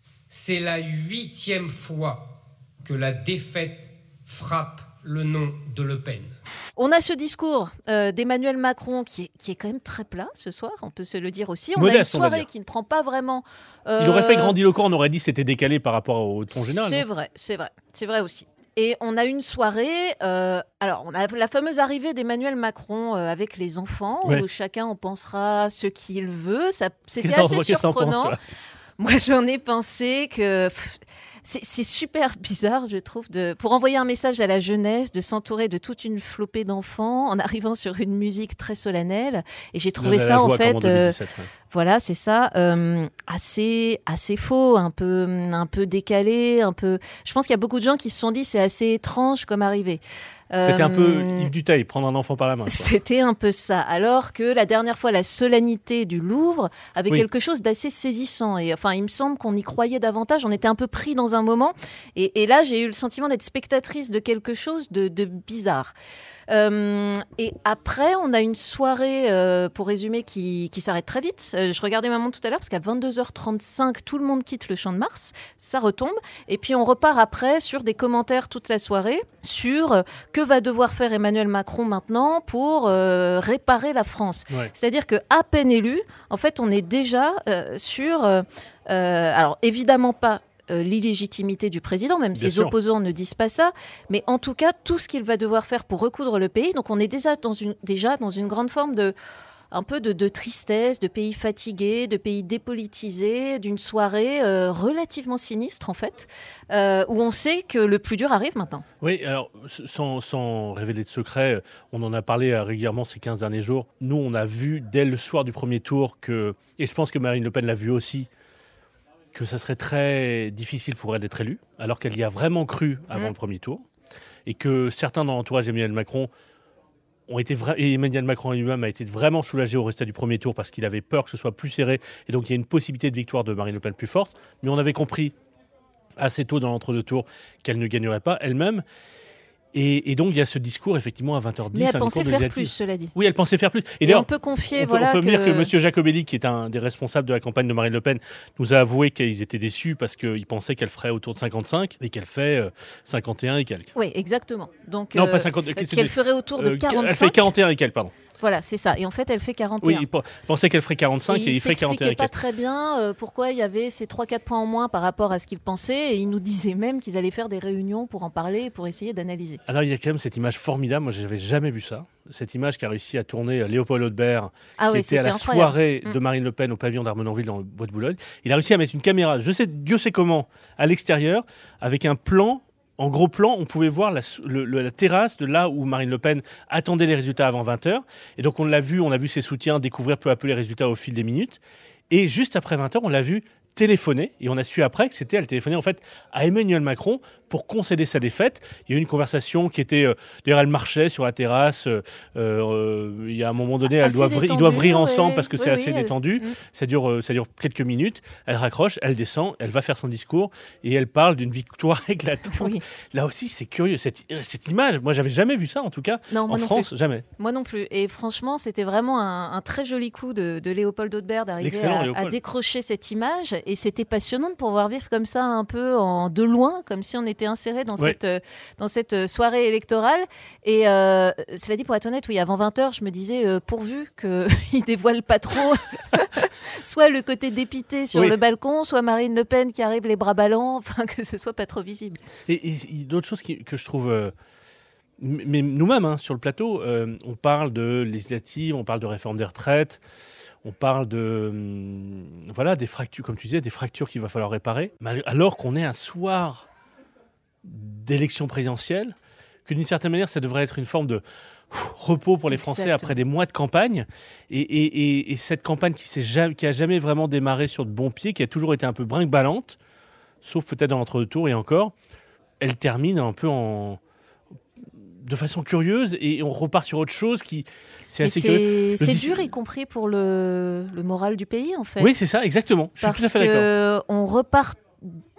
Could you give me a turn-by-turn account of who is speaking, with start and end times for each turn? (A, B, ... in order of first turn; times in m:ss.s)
0:00.3-0:06.4 A
0:06.8-0:14.6 B
0:11.8-0:12.5 C
0:14.0-0:17.0 C
0:16.5-0:28.4 B
0:27.2-0:28.4 C
0:29.0-0:41.2 B
0:40.0-0:41.5 C
0:41.7-0:51.5 B
0:50.6-0:52.9 C
0:52.6-1:05.9 B
1:06.5-1:39.1 B
1:32.3-1:32.7 C
1:39.7-1:48.8 B
1:49.0-1:58.3 C
1:59.3-2:03.8 C
2:04.5-2:06.3 C
2:07.3-2:15.3 C
2:16.2-2:18.8 C
2:19.7-2:33.9 C
2:21.7-2:23.1 B
2:24.0-2:25.7 B
2:34.0-2:37.5 B
2:35.1-2:38.1 C
2:38.4-2:40.0 B
2:39.8-2:42.3 C
2:41.3-2:49.6 B
2:49.7-3:11.6 C
2:54.8-2:56.2 B
3:12.1-3:37.2 C
3:24.0-3:26.6 B
3:32.5-3:32.8 B
3:36.3-4:02.2 B
3:41.6-3:42.4 C
4:02.5-4:04.3 C
4:05.2-4:10.0 C
4:10.6-4:16.7 C
4:17.6-4:29.8 C
4:22.5-4:23.2 B
4:30.4-4:31.9 C
4:32.6-4:34.0 C
4:35.2-4:39.5 C
4:38.2-4:42.1 B
4:42.0-4:43.7 C
4:43.0-4:45.2 B